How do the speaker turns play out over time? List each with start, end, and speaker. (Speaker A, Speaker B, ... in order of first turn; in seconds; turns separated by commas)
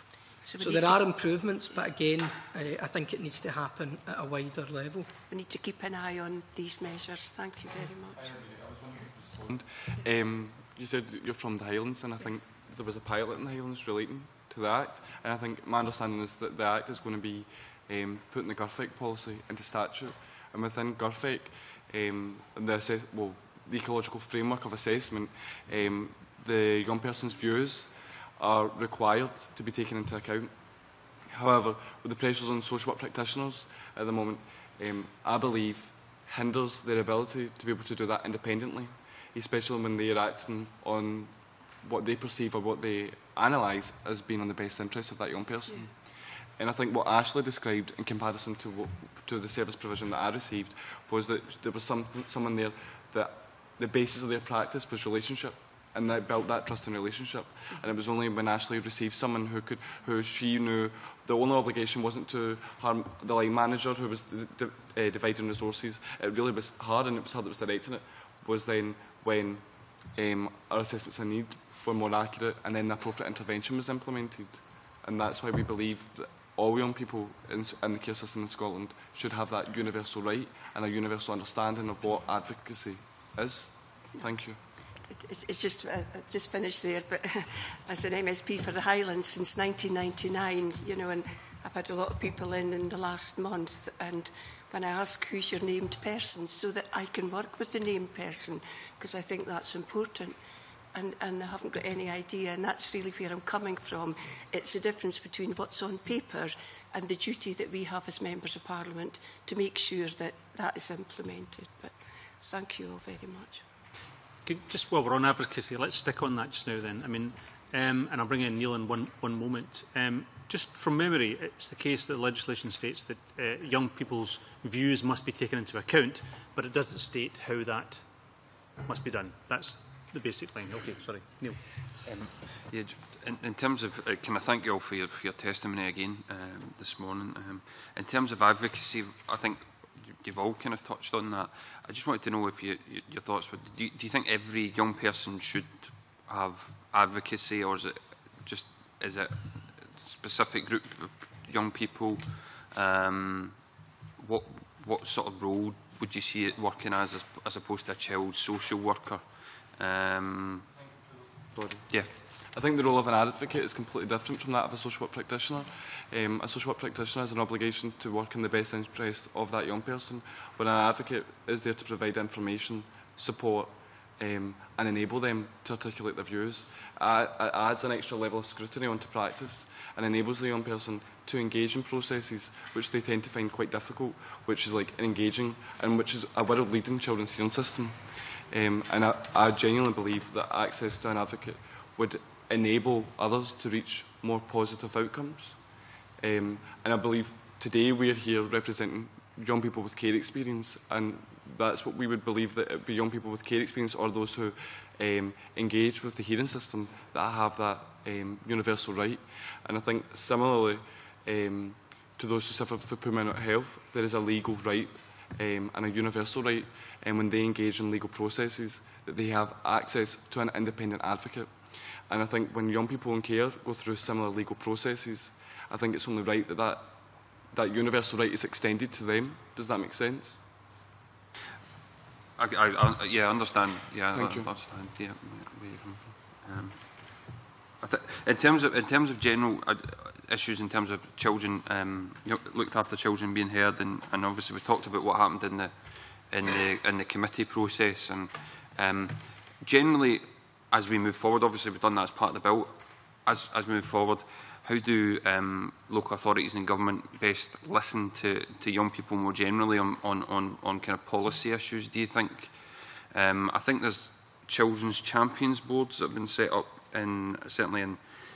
Speaker A: 0.4-1.1, Speaker B: 0.6-5.1, Speaker A: 5.3-8.4, Speaker C: 8.7-84.6, Speaker A: 85.1-100.4, Speaker A: 100.9-113.7, Speaker D: 114.4-128.1, Speaker D: 128.8-132.4, Speaker E: 132.6-153.6, Speaker E: 154.2-160.7, Speaker C: 161.5-230.4, Speaker E: 161.9-162.2, Speaker E: 232.4-262.6, Speaker C: 234.1-234.5, Speaker E: 263.1-268.0